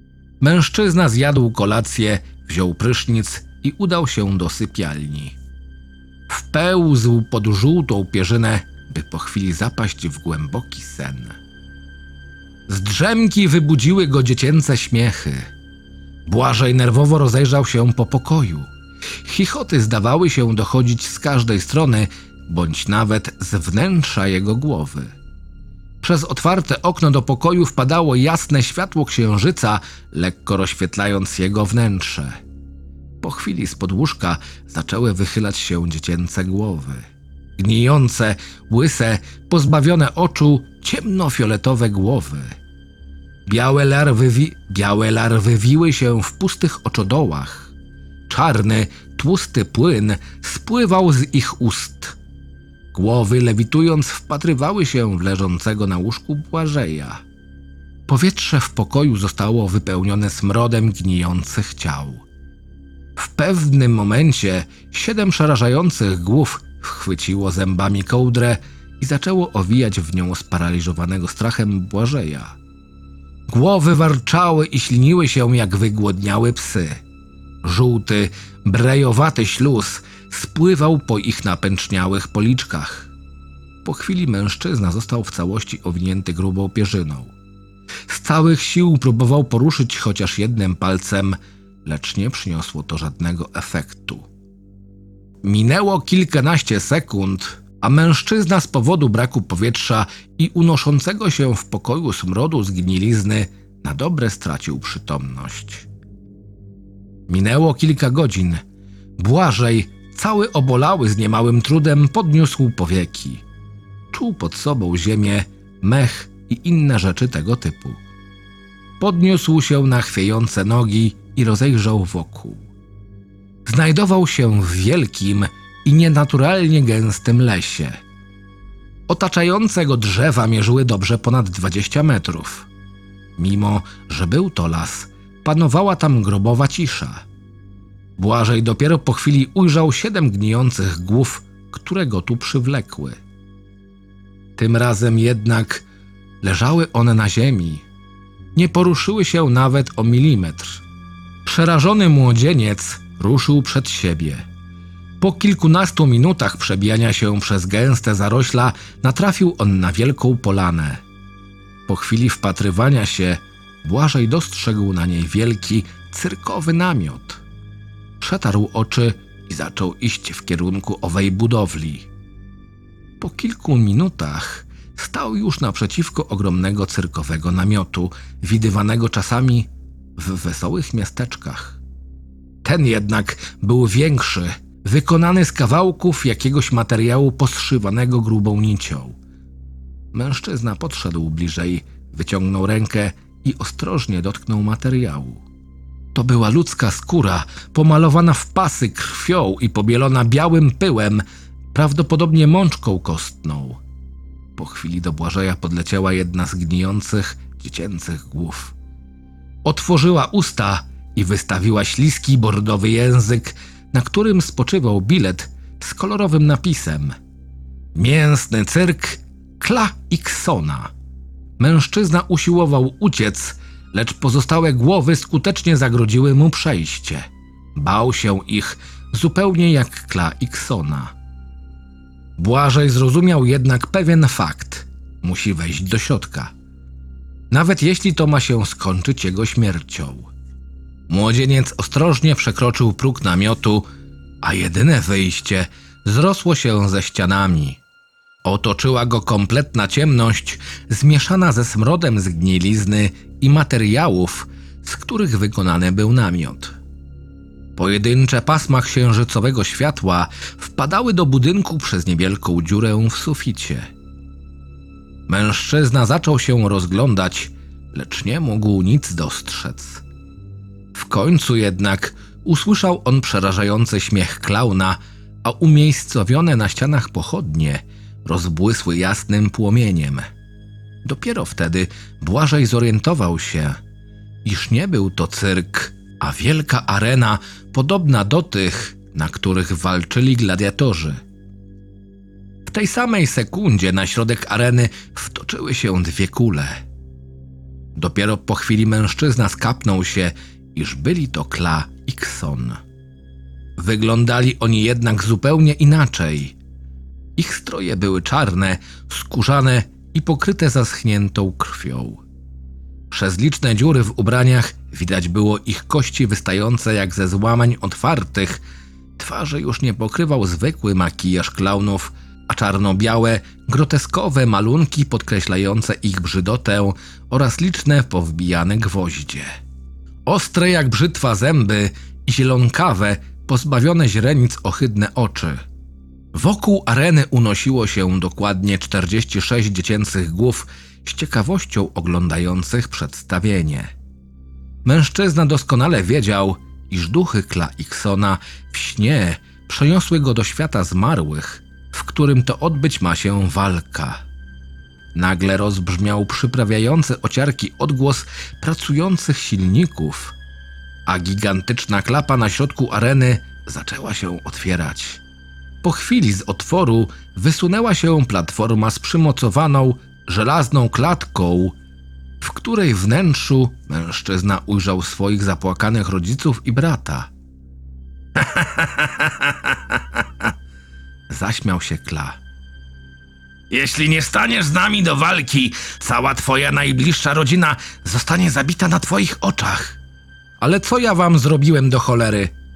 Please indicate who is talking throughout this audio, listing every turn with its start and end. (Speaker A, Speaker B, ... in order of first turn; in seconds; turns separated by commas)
Speaker A: 0.4-5.4, Speaker A: 6.3-11.4, Speaker A: 12.7-15.5, Speaker A: 16.2-18.7, Speaker A: 19.2-25.1, Speaker A: 26.0-32.4, Speaker A: 33.2-42.6, Speaker A: 43.5-47.7, Speaker A: 48.3-52.2, Speaker A: 52.9-57.2, Speaker A: 58.1-62.2, Speaker A: 63.1-72.5, Speaker A: 73.5-77.0, Speaker A: 77.6-83.1, Speaker A: 83.8-87.3, Speaker A: 88.1-94.2, Speaker A: 95.4-105.9, Speaker A: 107.3-108.6, Speaker A: 109.2-113.4, Speaker A: 114.1-118.0, Speaker A: 119.0-122.7, Speaker A: 123.6-128.0, Speaker A: 129.1-132.7, Speaker A: 133.4-137.2, Speaker A: 138.2-143.2, Speaker A: 144.6-145.8, Speaker A: 146.4-147.8, Speaker A: 148.5-150.8, Speaker A: 151.4-154.5, Speaker A: 155.2-161.0, Speaker A: 161.9-167.4, Speaker A: 168.2-172.1, Speaker A: 173.2-181.8, Speaker A: 182.6-189.2, Speaker A: 190.1-195.4, Speaker A: 196.1-203.8, Speaker A: 204.6-208.7, Speaker A: 209.6-217.1, Speaker A: 217.9-220.9, Speaker A: 221.6-231.1, Speaker A: 232.4-236.5, Speaker A: 237.5-240.3, Speaker A: 241.1-243.8, Speaker A: 244.4-247.8, Speaker A: 248.4-256.8, Speaker A: 257.8-263.9, Speaker A: 265.3-270.0, Speaker A: 270.9-280.3, Speaker A: 281.0-283.8, Speaker A: 284.4-291.2, Speaker A: 292.6-296.8, Speaker A: 297.9-302.8, Speaker A: 303.8-306.6, Speaker A: 307.4-312.2, Speaker A: 313.1-318.6, Speaker A: 319.2-329.5, Speaker A: 330.2-335.6, Speaker A: 336.3-343.9, Speaker A: 344.8-354.2, Speaker A: 355.1-360.4, Speaker A: 361.1-365.2, Speaker A: 365.8-371.8, Speaker A: 372.4-377.3, Speaker A: 378.4-380.2, Speaker A: 381.3-382.4, Speaker A: 383.7-390.0, Speaker A: 390.6-392.5